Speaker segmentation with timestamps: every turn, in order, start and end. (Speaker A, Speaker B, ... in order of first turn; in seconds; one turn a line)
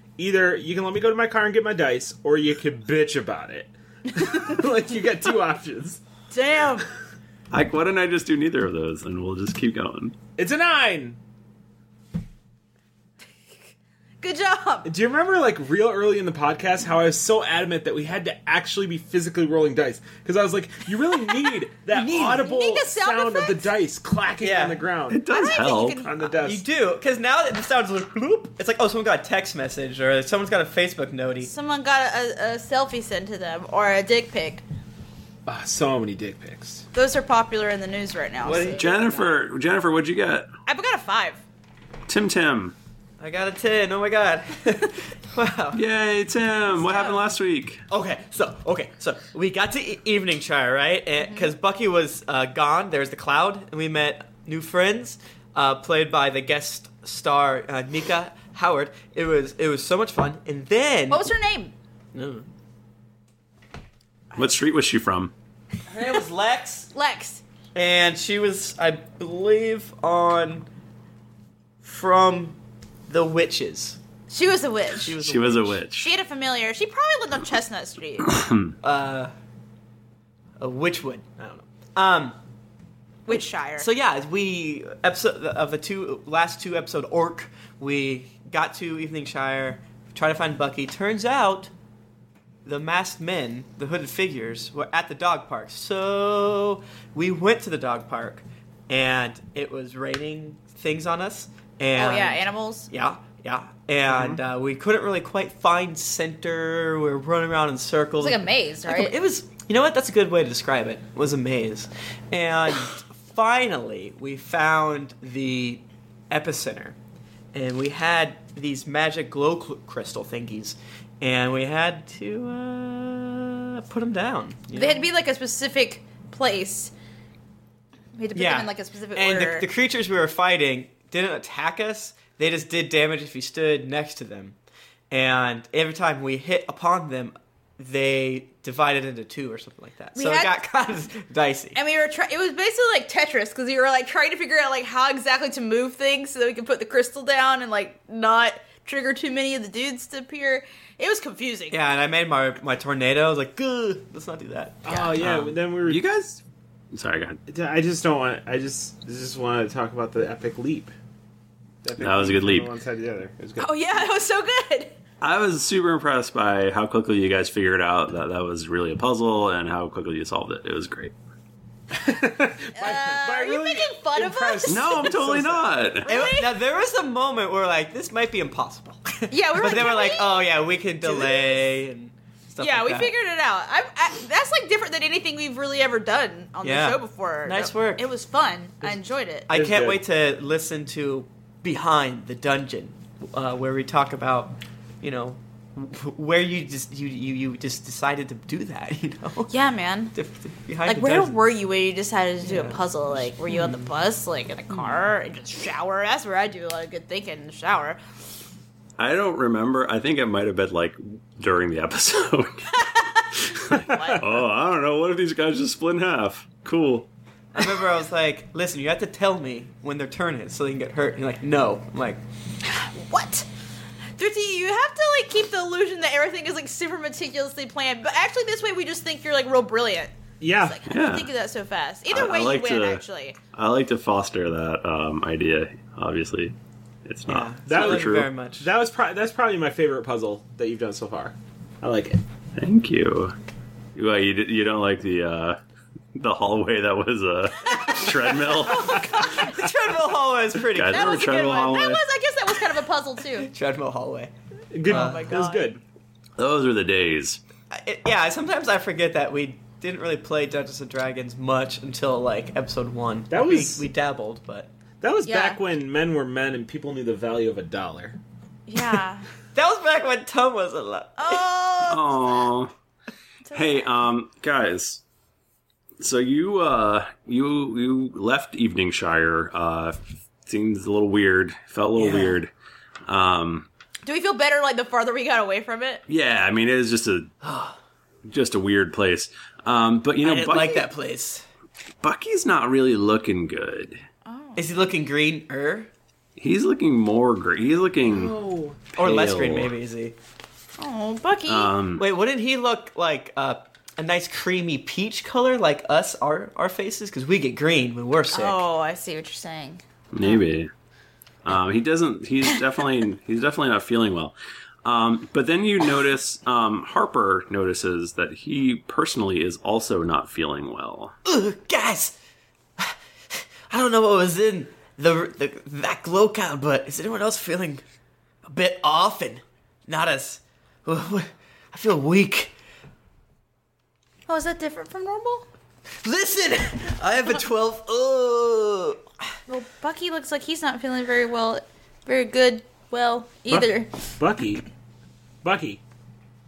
Speaker A: 0.2-6.0
Speaker B: 6.3-6.9
Speaker C: 7.5-10.1
Speaker A: 10.4-11.2
Speaker B: 14.2-14.9
Speaker A: 14.8-26.6
Speaker D: 21.9-22.5
Speaker B: 22.1-23.8
Speaker D: 24.4-24.9
Speaker C: 25.1-26.1
Speaker B: 25.3-26.3
Speaker D: 26.4-31.5
Speaker B: 31.4-34.6
Speaker A: 35.5-36.9
Speaker B: 36.9-38.8
Speaker D: 38.4-39.4
Speaker C: 38.8-40.5
Speaker B: 40.6-41.4
Speaker C: 42.1-42.8
Speaker D: 43.2-45.8
Speaker C: 45.7-47.8
Speaker B: 46.7-47.2
Speaker D: 47.9-61.2
Speaker B: 51.2-51.5
Speaker B: 61.1-61.7
Speaker D: 62.1-62.5
Speaker C: 64.4-65.3
Speaker D: 65.9-66.9
Speaker B: 66.9-67.4
Speaker D: 67.8-70.7
Speaker D: 71.8-74.0
Speaker B: 74.3-75.2
Speaker D: 74.9-75.9
Speaker C: 75.2-76.1
Speaker B: 75.9-78.3
Speaker C: 78.3-78.7
Speaker D: 78.8-79.3
Speaker D: 80.6-82.4
Speaker B: 83.2-83.9
Speaker D: 83.3-91.7
Speaker D: 92.6-117.0
Speaker B: 101.9-102.9
Speaker A: 104.1-104.4
Speaker B: 108.2-109.2
Speaker D: 117.5-125.1
Speaker B: 124.7-126.9
Speaker B: 128.2-129.7
Speaker D: 128.3-134.6
Speaker D: 135.1-141.8
Speaker B: 140.1-140.6
Speaker B: 141.7-151.8
Speaker D: 151.7-154.8
Speaker A: 154.8-156.0
Speaker B: 154.9-155.1
Speaker C: 155.2-157.4
Speaker A: 157.5-160.9
Speaker A: 161.8-163.8
Speaker C: 162.0-162.7
Speaker B: 163.6-165.0
Speaker C: 165.2-171.1
Speaker A: 171.9-175.8
Speaker B: 172.8-175.1
Speaker C: 174.7-176.1
Speaker B: 176.0-176.5
Speaker D: 176.1-183.1
Speaker B: 179.3-181.8
Speaker B: 182.6-189.5
Speaker D: 186.6-188.1
Speaker D: 189.5-199.5
Speaker A: 189.5-190.0
Speaker B: 199.5-200.1
Speaker D: 200.1-201.4
Speaker B: 200.8-208.0
Speaker D: 202.4-203.8
Speaker C: 209.0-217.1
Speaker B: 212.9-214.2
Speaker A: 213.7-214.2
Speaker D: 217.5-222.2
Speaker B: 222.7-223.5
Speaker B: 224.2-233.3
Speaker A: 230.4-230.8
Speaker C: 230.8-231.3
Speaker C: 232.1-233.0
Speaker C: 233.5-238.3
Speaker D: 237.3-238.7
Speaker A: 237.7-242.2
Speaker C: 242.6-243.3
Speaker C: 243.9-245.6
Speaker C: 246.2-249.1
Speaker B: 247.6-249.7
Speaker D: 249.4-251.4
Speaker C: 250.7-252.1
Speaker B: 250.9-253.5
Speaker D: 253.4-254.3
Speaker A: 254.7-255.8
Speaker D: 254.8-255.3
Speaker B: 254.9-255.7
Speaker C: 256.4-257.4
Speaker D: 257.7-264.7
Speaker A: 263.3-263.9
Speaker A: 265.0-268.2
Speaker B: 265.2-265.6
Speaker B: 268.7-269.3
Speaker D: 269.5-271.5
Speaker B: 271.2-272.5
Speaker C: 271.9-272.7
Speaker B: 273.4-273.9
Speaker C: 273.5-275.0
Speaker C: 276.0-282.5
Speaker D: 281.9-282.4
Speaker C: 283.1-283.7
Speaker B: 284.0-286.0
Speaker C: 286.1-287.3
Speaker D: 287.4-287.8
Speaker C: 288.2-290.9
Speaker D: 290.2-291.4
Speaker C: 292.0-294.0
Speaker B: 294.3-294.9
Speaker D: 294.6-295.9
Speaker C: 296.4-298.4
Speaker A: 298.1-298.8
Speaker C: 298.9-299.7
Speaker D: 298.9-300.2
Speaker B: 300.8-301.7
Speaker C: 301.5-302.1
Speaker D: 301.9-308.6
Speaker B: 308.3-310.4
Speaker C: 310.1-310.7
Speaker C: 311.4-321.1
Speaker D: 321.2-322.2
Speaker D: 322.8-327.8
Speaker D: 328.4-332.5
Speaker B: 334.3-335.4
Speaker D: 336.0-339.0
Speaker B: 339.5-343.9
Speaker A: 343.5-344.6
Speaker A: 345.4-345.8